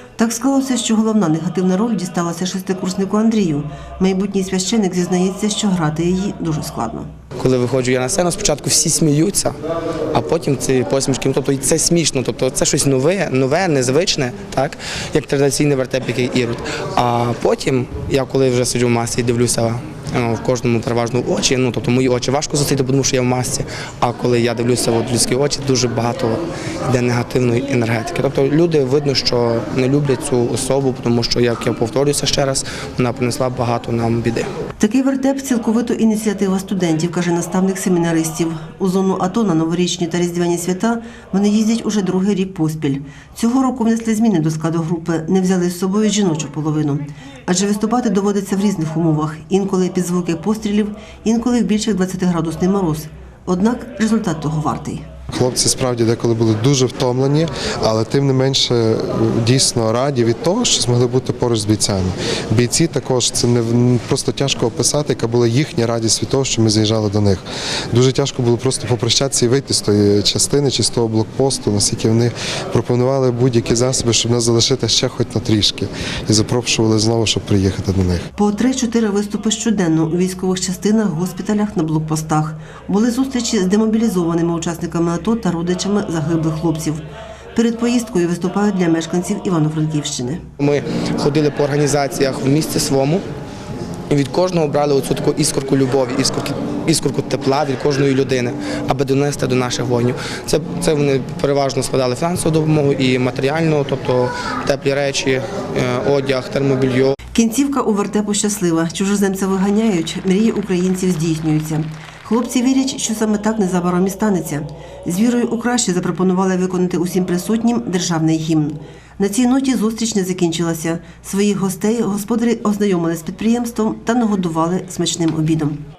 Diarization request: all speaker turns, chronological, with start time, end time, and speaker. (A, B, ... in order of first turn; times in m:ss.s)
0:00.2-0:07.1 A
0:07.4-0:09.6 B
0:10.1-0:34.5 B
0:34.8-0:55.0 A
0:55.3-1:18.2 C
1:18.4-1:27.0 A
1:27.6-1:30.4 A
1:30.6-1:33.2 B
1:34.1-1:47.2 B
1:47.3-2:05.8 A